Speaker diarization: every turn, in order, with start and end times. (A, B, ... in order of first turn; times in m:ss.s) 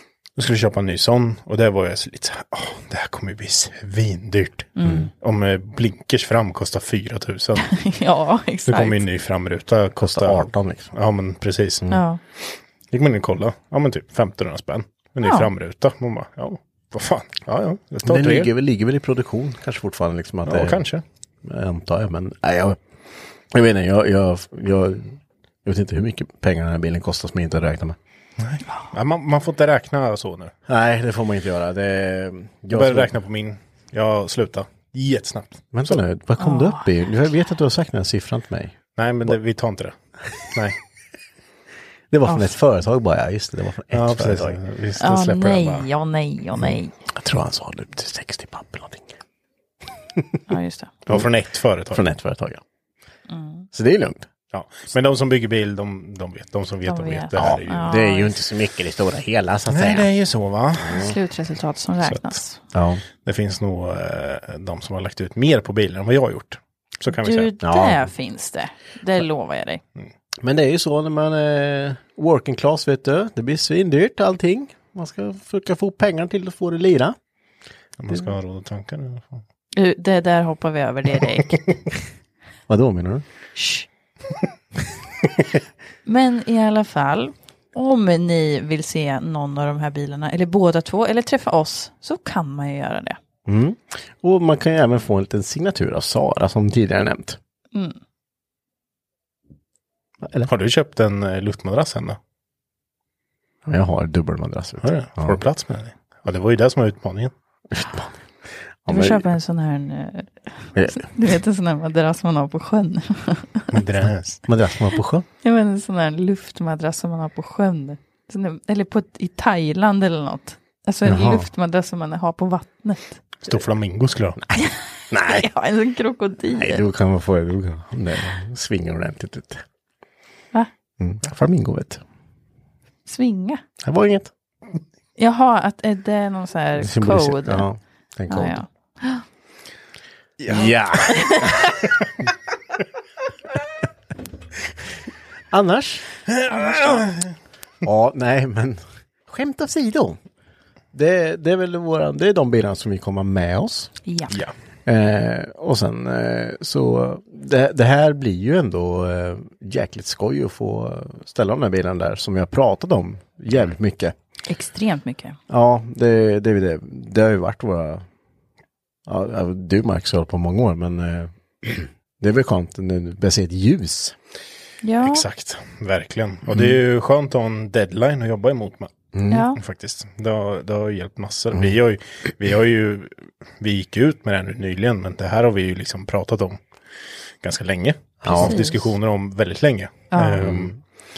0:00.4-0:07.6 A
0:04.8-0:05.1 B
0:07.6-0:09.0 B
0:08.7-0:11.8 A
0:10.0-0:10.9 C
0:11.9-0:12.2 B
0:12.4-0:18.5 A
0:15.2-0:15.5 B
0:18.0-0:20.8 C
0:20.4-0:21.0 A
0:21.4-0:22.8 C
0:23.5-0:28.0 C
0:28.4-0:30.5 A
0:30.7-0:33.1 C
0:32.7-0:36.0 A
0:35.7-0:38.8 C
0:36.4-0:36.8 B
0:39.0-0:40.8 A
0:42.1-0:44.6 C
0:42.3-0:42.5 B
0:43.9-0:45.9 A
0:45.0-0:46.9 B
0:46.6-0:49.1 C
0:50.5-0:50.9 B
0:51.1-0:52.1 A
0:51.9-0:52.6 C
0:53.3-0:53.7 B
0:53.7-0:54.3 C
0:54.5-0:58.0 A
0:56.8-0:58.3 B
0:57.4-1:00.1 C
0:59.7-1:01.1 A
1:00.8-1:01.1 C
1:00.9-1:02.6 B
1:02.7-1:03.0 C
1:03.2-1:07.5 A
1:07.1-1:09.8 B
1:07.6-1:08.0 C
1:10.4-1:17.2 C
1:18.0-1:19.4 A
1:19.7-1:21.6 B
1:22.7-1:23.2 C
1:23.6-1:23.9 B
1:26.0-1:33.2 B
1:33.4-1:37.4 C
1:37.7-1:38.0 B
1:40.2-1:40.5 C
1:40.4-1:42.2 A
1:43.6-1:45.4 C
1:44.8-1:47.3 A
1:47.7-1:48.1 C
1:48.8-1:49.3 C
1:48.9-1:53.7 B
1:50.8-1:51.1 C
1:53.7-1:54.4 A
1:54.4-1:55.2 C
1:55.4-2:03.3 B
2:01.0-2:01.5 C
2:03.4-2:04.4 A
2:04.4-2:05.5 C
2:04.6-2:06.8 B
2:06.5-2:09.6 C
2:11.0-2:12.0 C
2:13.0-2:13.6 B
2:13.8-2:14.3 C
2:15.2-2:17.6 B
2:16.8-2:18.6 C
2:18.3-2:19.2 B
2:20.4-2:21.1 A
2:20.5-2:21.6 C
2:21.1-2:21.7 B
2:25.5-2:26.1 C
2:26.3-2:27.2 A
2:26.5-2:27.1 B
2:27.8-2:30.2 C
2:30.9-2:33.9 C
2:34.0-2:34.3 B
2:34.8-2:44.1 C
2:44.5-2:45.4 B
2:45.5-2:48.0 C
2:49.0-2:54.2 C
2:54.8-2:55.2 B
2:55.0-2:58.9 A
2:56.5-2:56.8 C
2:59.1-2:59.5 C
2:59.3-2:59.6 B
2:59.6-3:06.6 A
3:07.4-3:10.8 A
3:08.2-3:08.7 C
3:08.3-3:08.8 B
3:10.1-3:10.5 B
3:10.4-3:10.7 C